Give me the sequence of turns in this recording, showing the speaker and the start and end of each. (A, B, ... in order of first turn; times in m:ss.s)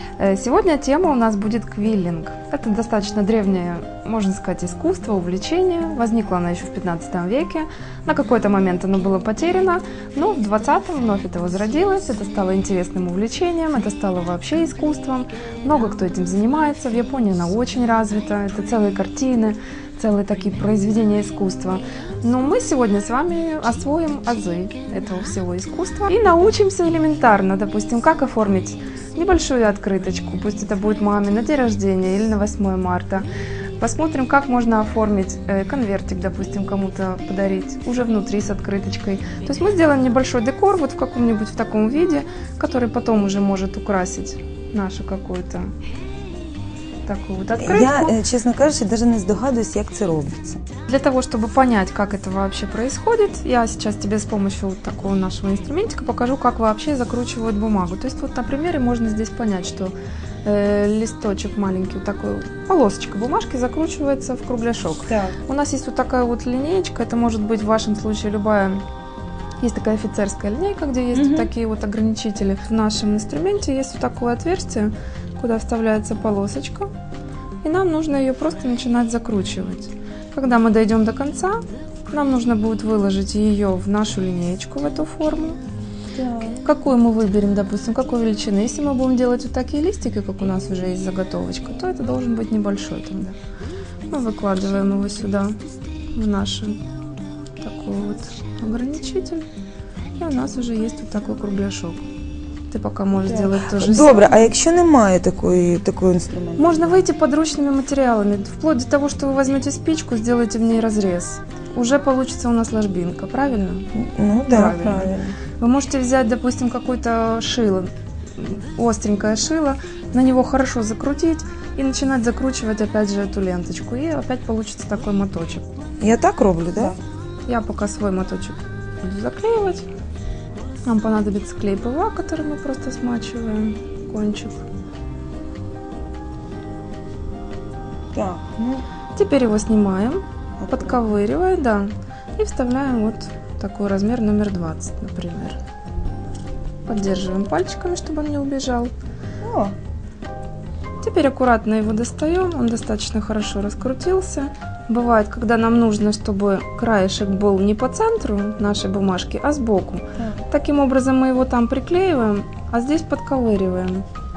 0:00.2-0:33.3 A
0:33.8-0:45.7 A
0:47.0-0:48.2 A
0:47.6-0:50.6 B
0:50.9-0:59.9 A
1:00.4-1:08.8 A
1:05.1-1:05.4 B
1:09.6-1:16.9 A
1:11.1-1:11.5 B
1:17.6-1:25.6 A
1:26.2-1:26.6 B
1:26.6-1:33.4 A
1:34.1-1:35.6 A
1:36.1-1:36.8 A
1:37.6-1:39.4 A
1:40.2-1:42.0 A
1:42.7-1:44.4 A
1:43.2-1:46.9 B
1:46.6-1:53.9 A
1:53.9-1:55.3 B
1:54.5-2:05.7 A
2:06.0-2:07.0 B
2:07.5-2:09.9 A
2:10.8-2:14.6 A
2:18.1-2:18.8 B
2:19.1-2:25.6 A
2:20.6-2:21.0 B
2:26.9-2:28.9 A
2:29.4-2:29.7 B
2:31.0-2:44.0 A